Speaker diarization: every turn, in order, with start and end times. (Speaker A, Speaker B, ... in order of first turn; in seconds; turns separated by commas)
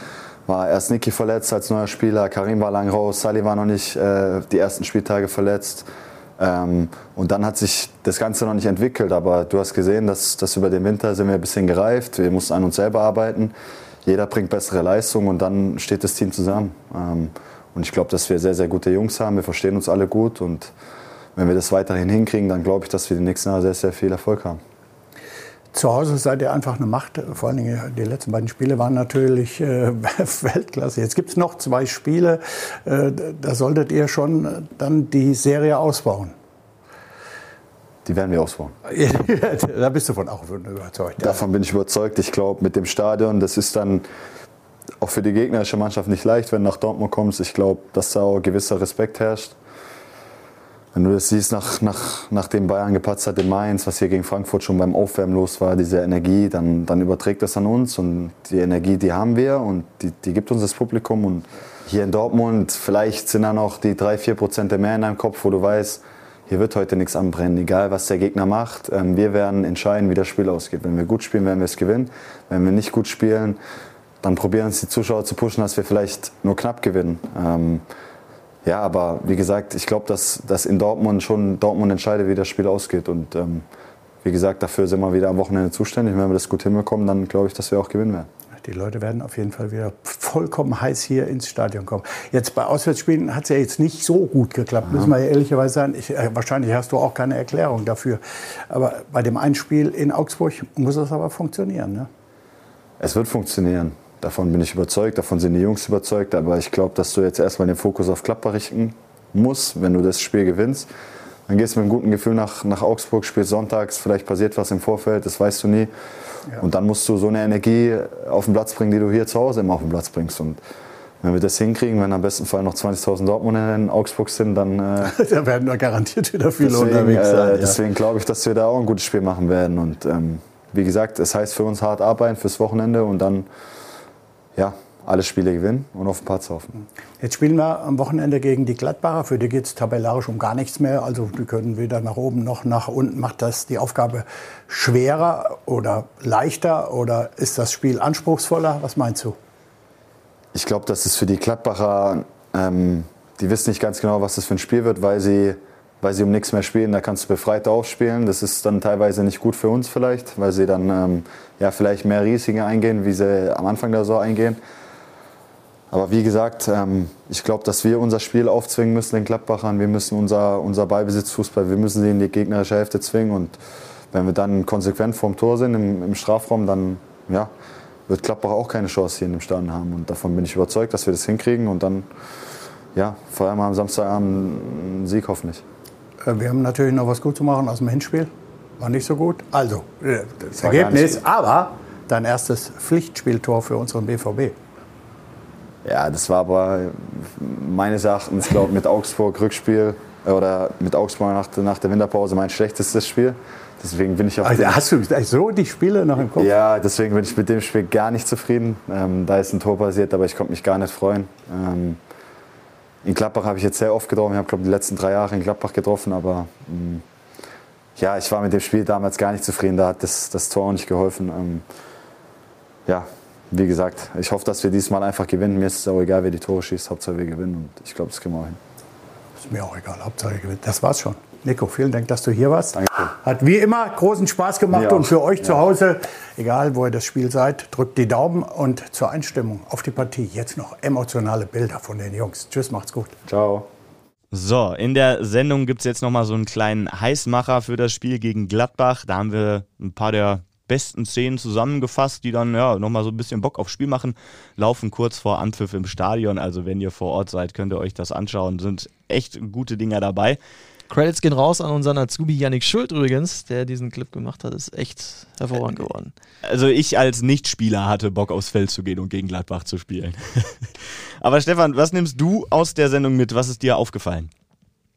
Speaker A: 0.5-5.9, Speaker A: 6.4-13.5, Speaker A: 14.0-20.7, Speaker A: 21.4-24.6, Speaker B: 25.7-36.3, Speaker A: 38.0-38.7, Speaker B: 38.9-41.4, Speaker A: 41.2-44.0, Speaker A: 45.0-49.6, Speaker A: 50.9-73.6, Speaker A: 74.2-77.8, Speaker A: 78.6-83.6, Speaker A: 84.2-88.3, Speaker B: 88.6-102.1, Speaker A: 103.0-110.9, Speaker A: 111.5-115.9, Speaker A: 116.5-120.6, Speaker A: 121.2-125.1, Speaker B: 125.0-127.8, Speaker A: 126.6-133.5, Speaker A: 134.6-136.7, Speaker B: 137.2-149.4, Speaker A: 150.5-164.6, Speaker A: 165.9-173.6, Speaker A: 174.1-177.5, Speaker A: 178.1-182.1, Speaker A: 182.9-185.6, Speaker B: 186.2-194.5, Speaker A: 190.6-191.2, Speaker A: 195.8-204.8, Speaker B: 204.4-206.5, Speaker A: 206.3-212.0, Speaker A: 213.0-217.0, Speaker A: 217.9-221.6, Speaker A: 222.8-228.6, Speaker B: 229.4-243.2, Speaker A: 232.7-233.1, Speaker A: 234.7-235.6, Speaker A: 243.3-243.7, Speaker C: 244.3-260.4, Speaker D: 260.9-266.1, Speaker C: 266.4-274.3